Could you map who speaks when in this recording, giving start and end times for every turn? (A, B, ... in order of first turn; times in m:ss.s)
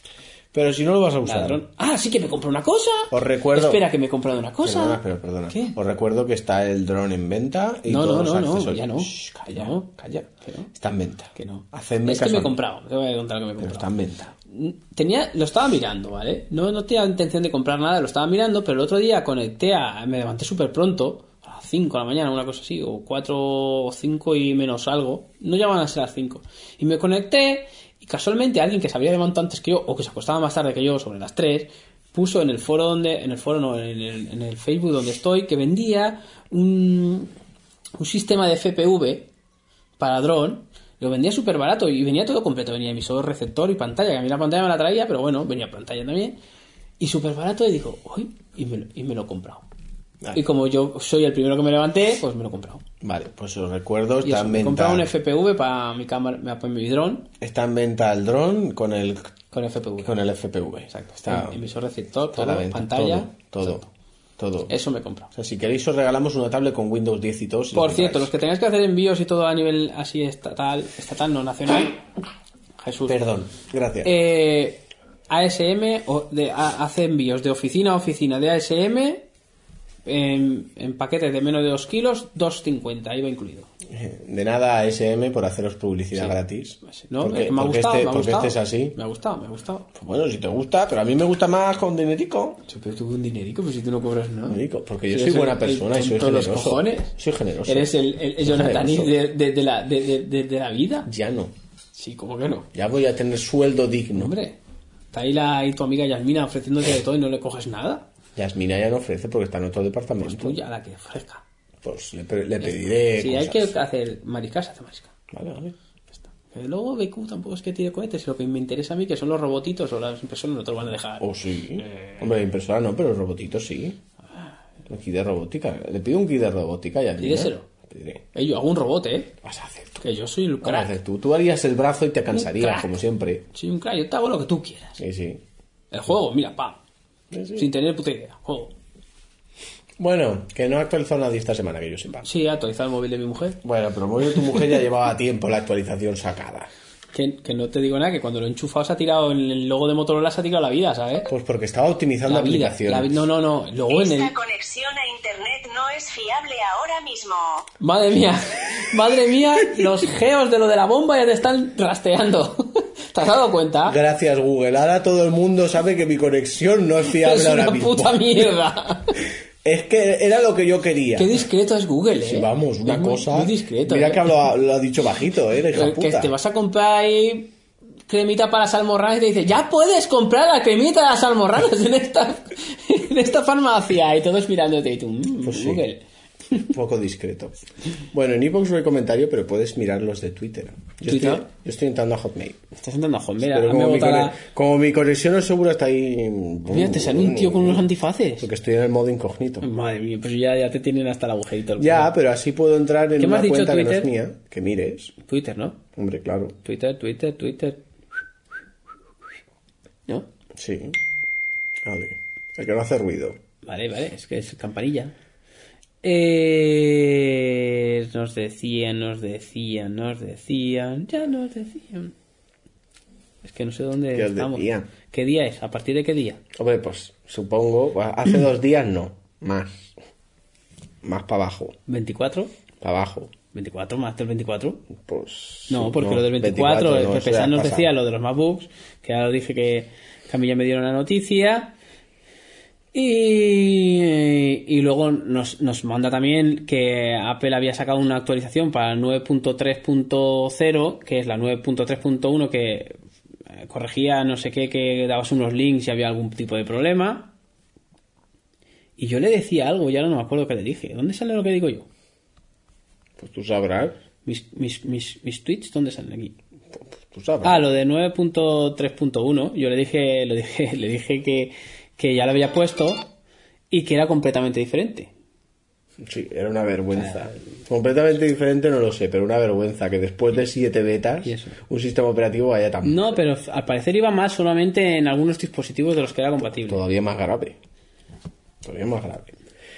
0:00.5-0:01.6 A
0:01.2-0:05.8 B
0:03.1-0:03.8 A
0:04.6-0:12.6 A
0:07.9-0:10.7 B
0:11.3-0:13.9 B
0:13.6-0:14.3 A
0:14.5-0:37.3 B
0:38.0-0:39.3 B
0:40.0-0:46.4 B
0:47.0-0:49.6 B
0:50.3-0:52.8 B
0:53.0-0:55.1 A
0:54.2-0:57.3 B
0:57.4-0:59.3 A
0:59.5-1:00.2 B
1:00.0-1:01.6 A
1:00.9-1:03.9 B
1:02.3-1:03.8 A
1:04.4-1:04.7 A
1:04.7-1:05.3 B
1:05.3-1:08.3 A
1:07.7-1:12.0 B
1:12.8-1:13.2 B
1:13.0-1:14.1 A
1:14.0-1:19.2 B
1:20.0-1:23.7 B
1:23.9-1:29.0 A
1:26.1-1:29.9 B
1:29.9-1:32.6 A
1:32.7-1:37.1 B
1:34.5-1:37.9 A
1:37.6-1:41.1 B
1:38.4-1:39.1 A
1:41.0-1:41.5 A
1:41.9-1:42.7 B
1:42.7-1:44.3 A
1:44.1-1:44.5 B
1:45.1-1:48.0 B
1:48.4-1:50.6 A
1:50.2-1:51.4 B
1:51.8-1:53.7 A
1:52.6-1:55.1 B
1:55.3-1:55.7 A
1:56.5-2:01.2 B
2:01.2-2:04.0 A
2:01.8-2:02.2 B
2:04.9-2:08.2 A
2:07.2-2:07.6 B
2:08.3-2:09.3 B
2:09.4-2:10.0 A
2:10.0-2:10.9 B
2:10.6-2:13.4 A
2:12.3-2:12.9 B
2:13.5-2:15.0 B
2:15.0-2:15.4 A
2:15.9-2:16.8 B
2:17.3-2:17.7 A
2:17.5-2:18.7 B
2:20.0-2:22.3 A
2:22.2-2:23.6 B
2:23.6-2:26.7 A
2:27.1-2:31.3 B
2:31.3-2:33.1 A
2:32.3-2:34.3 B
2:33.9-2:37.7 C
2:37.8-2:44.0 B
2:43.8-2:48.5 A
2:47.1-2:49.2 B
2:49.6-2:51.4 A
2:51.1-2:54.4 B
2:52.2-2:56.3 A
2:55.7-2:57.5 B
2:58.1-3:06.0 B
3:05.4-3:05.8 A
3:06.7-3:07.6 A
3:08.1-3:12.6 A
3:11.0-3:11.4 B
3:12.8-3:14.4 B
3:13.4-3:17.8 A
3:16.7-3:18.5 B
3:18.4-3:19.7 A
3:19.6-3:22.1 B
3:21.8-3:25.1 A
3:23.2-3:24.1 B
3:25.2-3:25.8 B
3:26.0-3:26.6 A
3:26.6-3:27.8 B
3:30.5-3:31.0 A
3:31.8-3:33.4 A
3:33.6-3:35.1 B
3:36.0-3:42.1 B
3:43.4-3:46.4 B
3:44.1-3:44.9 A
3:46.5-3:49.9 A
3:51.0-3:51.8 A
3:51.9-3:52.5 B
3:52.8-3:53.3 A
3:53.5-3:54.8 B
3:55.0-3:57.9 A
3:55.7-4:01.7 B
4:02.9-4:12.9 B
4:13.6-4:17.3 B
4:19.0-4:21.8 B
4:23.2-4:24.0 A
4:24.2-4:26.3 B
4:26.8-4:27.6 A
4:27.4-4:33.1 B
4:33.7-4:35.1 B
4:36.0-4:43.1 A
4:37.0-4:37.4 B
4:41.2-4:41.6 B
4:42.8-4:46.8 B
4:46.7-4:47.6 A
4:48.6-4:49.3 A